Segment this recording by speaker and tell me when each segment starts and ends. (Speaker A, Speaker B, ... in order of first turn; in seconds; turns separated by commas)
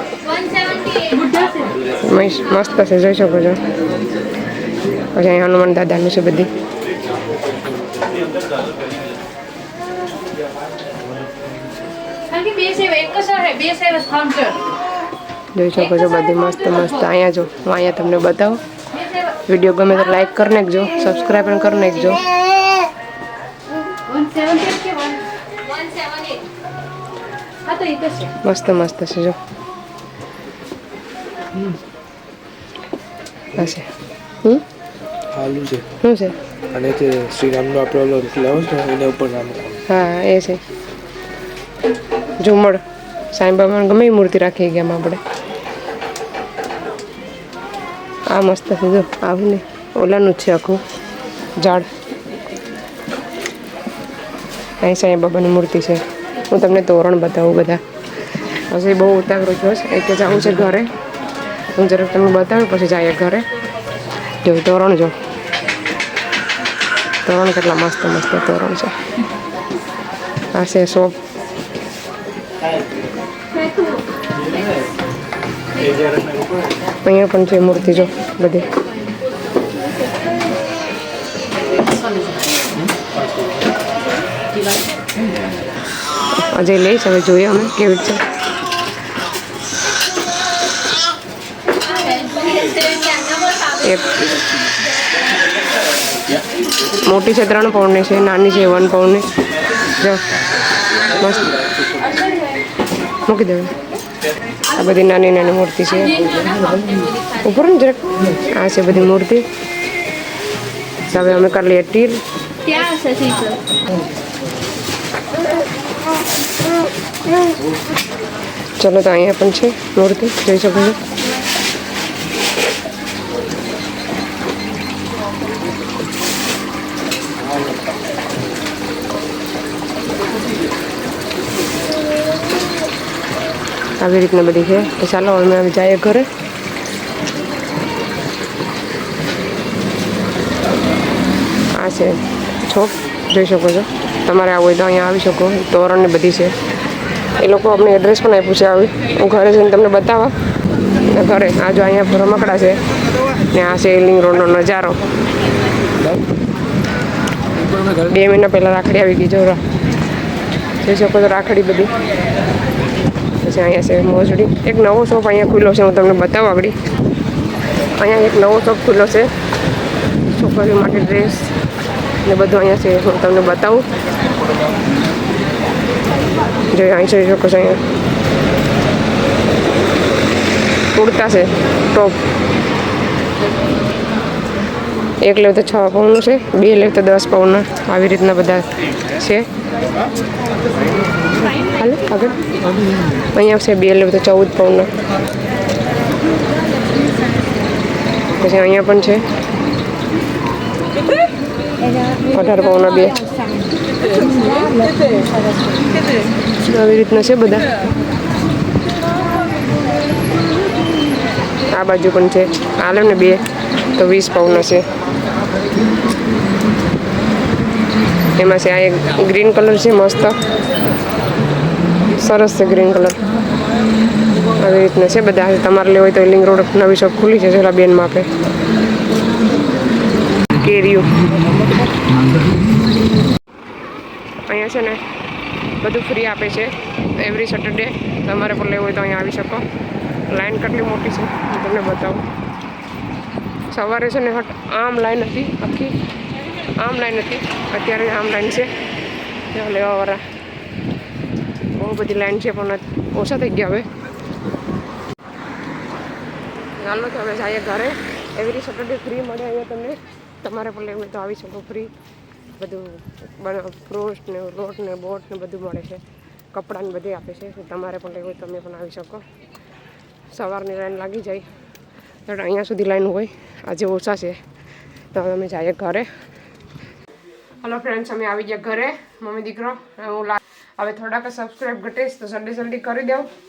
Speaker A: 0.8-1.8, Speaker B: 2.0-3.7, Speaker B: 5.0-6.5, Speaker A: 12.3-14.6, Speaker B: 15.6-18.6, Speaker B: 19.3-22.2, Speaker A: 24.1-26.4, Speaker A: 27.6-28.3, Speaker B: 28.4-29.4, Speaker B: 33.5-33.9, Speaker C: 35.3-35.9, Speaker B: 36.0-36.4, Speaker C: 36.7-39.9, Speaker B: 39.9-40.6, Speaker B: 42.4-45.2, Speaker B: 48.3-50.8, Speaker B: 51.6-51.9, Speaker B: 54.8-57.8, Speaker B: 58.7-60.9, Speaker B: 61.8-63.5, Speaker B: 64.4-65.1, Speaker B: 67.2-69.0, Speaker B: 70.5-71.2, Speaker B: 77.0-78.7, Speaker B: 86.5-88.3, Speaker A: 92.2-92.6, Speaker B: 93.7-94.3, Speaker B: 96.9-99.3, Speaker B: 99.9-100.2, Speaker B: 101.0-101.6, Speaker B: 103.3-103.8, Speaker B: 104.7-106.6, Speaker A: 106.7-107.0, Speaker B: 107.1-109.5, Speaker B: 111.1-112.2, Speaker A: 112.7-113.6, Speaker B: 118.8-121.0, Speaker B: 134.0-136.3, Speaker B: 141.7-146.6, Speaker B: 147.3-150.3, Speaker B: 151.0-152.8, Speaker B: 153.4-155.0, Speaker B: 157.8-159.6, Speaker B: 160.8-161.9, Speaker B: 163.4-166.8, Speaker B: 168.0-169.3, Speaker B: 170.3-171.5, Speaker B: 172.2-173.9, Speaker B: 176.7-177.8, Speaker B: 180.9-182.2, Speaker B: 185.2-189.5, Speaker B: 191.7-192.4, Speaker B: 193.3-194.9, Speaker B: 198.3-199.3, Speaker B: 202.2-203.3, Speaker A: 204.2-205.8, Speaker B: 206.6-207.7, Speaker B: 211.7-214.9, Speaker B: 218.4-220.4, Speaker B: 222.1-223.2, Speaker B: 224.6-228.3, Speaker B: 230.5-231.2, Speaker B: 234.5-235.0, Speaker B: 235.8-239.7, Speaker B: 240.3-242.2, Speaker B: 243.7-245.9, Speaker B: 246.8-248.7, Speaker B: 249.5-250.2, Speaker B: 251.7-253.9, Speaker B: 256.8-261.9, Speaker B: 262.6-269.2, Speaker B: 270.3-271.5, Speaker B: 272.3-274.4, Speaker B: 275.1-276.1, Speaker B: 277.6-283.3